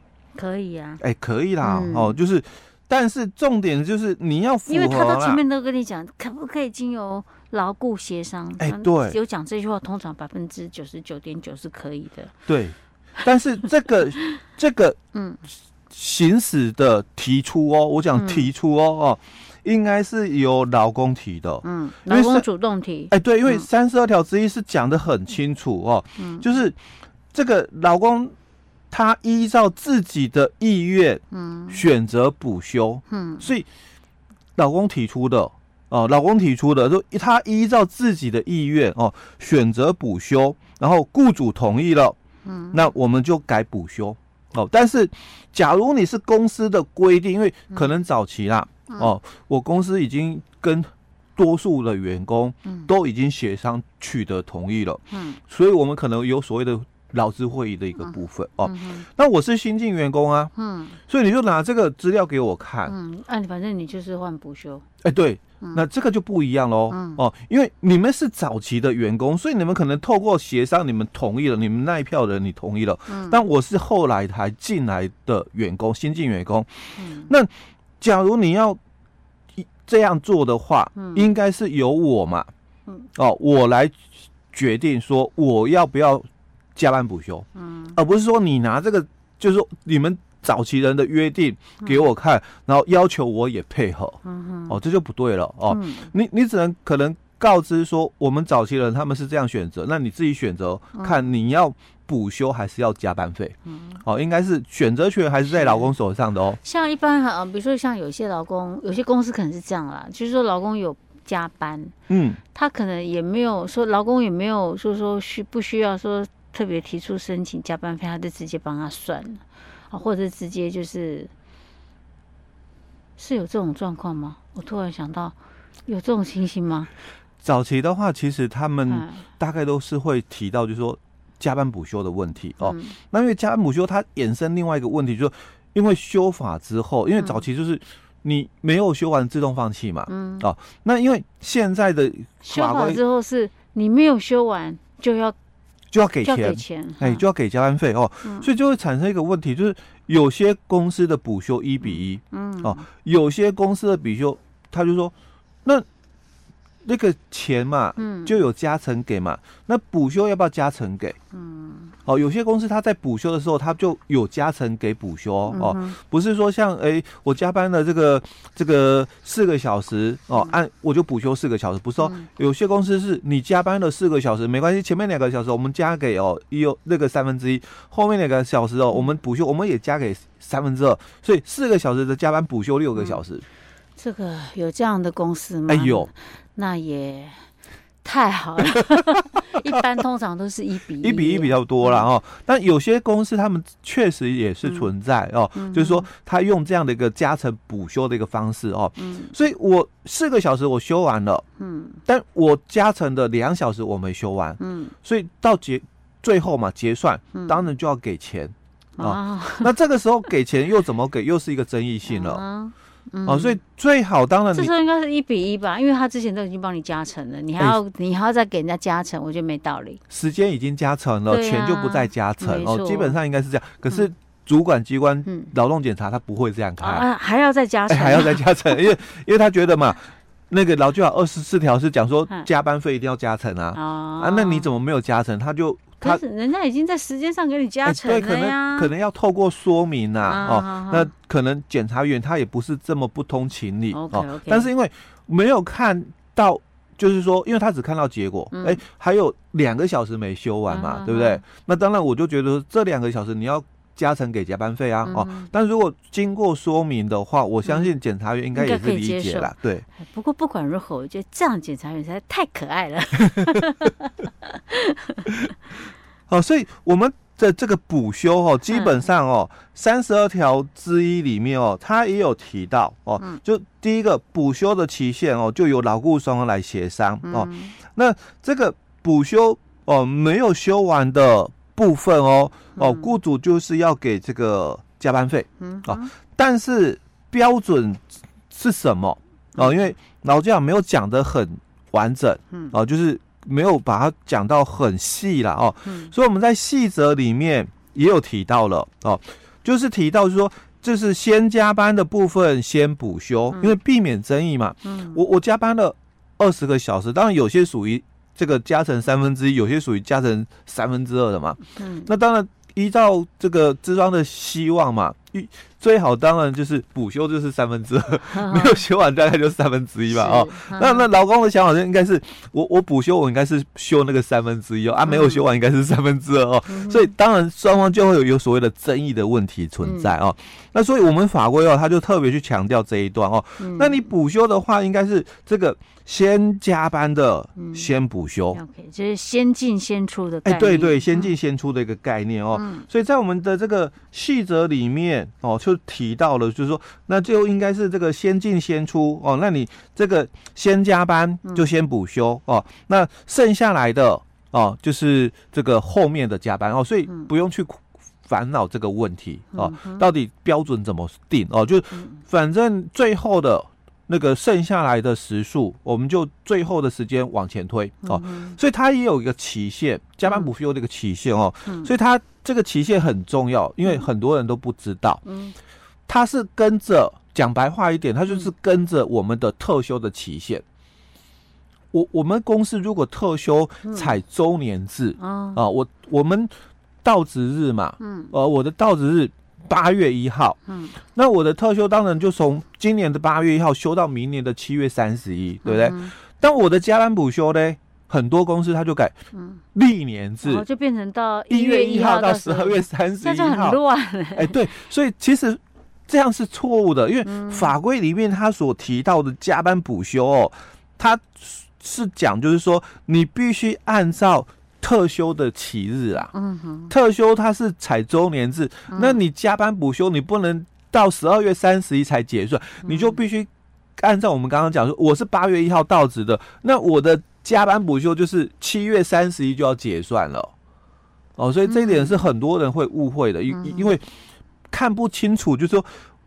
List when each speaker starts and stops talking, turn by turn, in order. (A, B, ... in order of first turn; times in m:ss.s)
0:00.4-0:01.0 A
0:01.0-0:05.4 B
0:01.6-0:02.2 A
0:04.7-0:12.3 A
0:08.6-0:09.2 B
0:12.5-0:15.0 B
0:15.1-0:15.4 A
0:15.9-0:22.5 B
0:18.2-0:18.5 A
0:21.6-0:23.7 A
0:23.1-0:26.8 B
0:26.2-0:26.5 A
0:27.3-0:28.3 B
0:28.9-0:33.7 B
0:31.3-0:31.8 A
0:33.1-0:33.5 A
0:34.6-0:42.2 B
0:42.4-0:42.8 A
0:42.7-1:00.5 B
0:55.1-0:55.4 A
0:58.0-0:59.0 A
1:00.6-1:01.0 A
1:01.1-1:02.9 B
1:02.9-1:04.8 A
1:05.0-1:18.8 B
1:06.9-1:07.2 A
1:13.1-1:13.4 A
1:17.0-1:17.3 A
1:19.6-1:22.5 B
1:21.0-1:21.3 A
1:23.2-1:24.0 B
1:24.5-1:46.6 B
1:27.6-1:28.0 A
1:34.2-1:34.8 A
1:35.7-1:36.1 A
1:41.0-1:41.2 A
1:43.7-1:44.0 A
1:45.5-1:46.0 A
1:46.6-1:51.9 A
1:52.1-1:52.4 B
1:52.5-2:01.3 A
2:03.2-2:05.4 A
2:05.9-2:06.9 A
2:07.4-2:23.0 B
2:08.9-2:09.2 A
2:12.6-2:13.0 A
2:17.2-2:17.4 A
2:20.1-2:20.5 A
2:22.4-2:25.4 A
2:25.9-2:35.1 B
2:26.2-2:27.2 A
2:28.2-2:28.5 A
2:31.8-2:32.8 A
2:36.8-2:41.2 B
2:38.0-2:38.4 A
2:41.3-2:41.9 A
2:42.1-3:03.4 B
2:45.5-2:46.0 A
2:52.0-2:52.3 A
3:03.0-3:03.2 A
3:04.0-3:07.5 A
3:05.7-3:06.1 B
3:08.0-3:12.1 A
3:11.0-3:21.4 B
3:15.6-3:16.1 A
3:19.0-3:19.4 A
3:21.6-3:22.0 A
3:22.1-3:32.4 B
3:24.6-3:24.9 A
3:27.3-3:27.7 A
3:29.0-3:29.7 A
3:32.0-3:33.6 A
3:33.2-3:34.7 B
3:34.5-3:40.0 A
3:40.1-3:47.1 B
3:41.3-3:43.2 A
3:45.3-3:45.5 A
3:46.8-3:48.8 A
3:47.9-3:56.2 B
3:53.7-3:54.7 A
3:56.0-3:58.9 A
3:57.8-4:19.8 B
4:00.2-4:01.1 A
4:03.9-4:04.7 A
4:08.5-4:08.8 A
4:10.7-4:11.4 A
4:15.1-4:15.5 A
4:17.6-4:17.9 A
4:18.6-4:25.3 A
4:26.3-5:38.6 B
4:28.7-4:29.0 A
4:37.2-4:37.7 A
4:42.8-4:43.1 A
4:45.6-4:46.1 A
4:49.6-4:49.9 A
4:55.9-4:56.1 A
5:04.8-5:05.2 A
5:11.8-5:12.1 A
5:18.3-5:18.8 A
5:20.1-5:21.1 A
5:25.1-5:25.4 A
5:26.7-5:27.1 A
5:29.8-5:30.1 A
5:33.6-5:34.0 A
5:37.6-5:37.9 A
5:38.5-5:41.3 A
5:40.4-6:15.2 B
5:42.5-5:42.8 A
5:59.5-6:00.1 A
6:08.0-6:08.6 A
6:11.7-6:11.9 A
6:15.3-6:15.6 A
6:16.1-6:20.6 B
6:21.9-6:26.5 B
6:23.8-6:24.2 A
6:25.2-6:25.6 A
6:27.0-6:30.6 B
6:28.0-6:28.3 A
6:30.7-6:31.0 A
6:31.2-6:39.1 B
6:35.6-6:36.1 A
6:39.3-6:39.6 A
6:39.8-6:40.6 B
6:40.4-6:44.6 A
6:41.5-6:43.8 B
6:44.4-6:56.3 B
6:47.2-6:47.7 A
6:56.3-6:56.9 A
6:56.9-7:10.5 B
6:58.9-6:59.2 A
7:02.8-7:03.2 A
7:11.4-7:14.0 B
7:11.7-7:12.2 A
7:13.5-7:13.9 A
7:14.7-7:15.9 B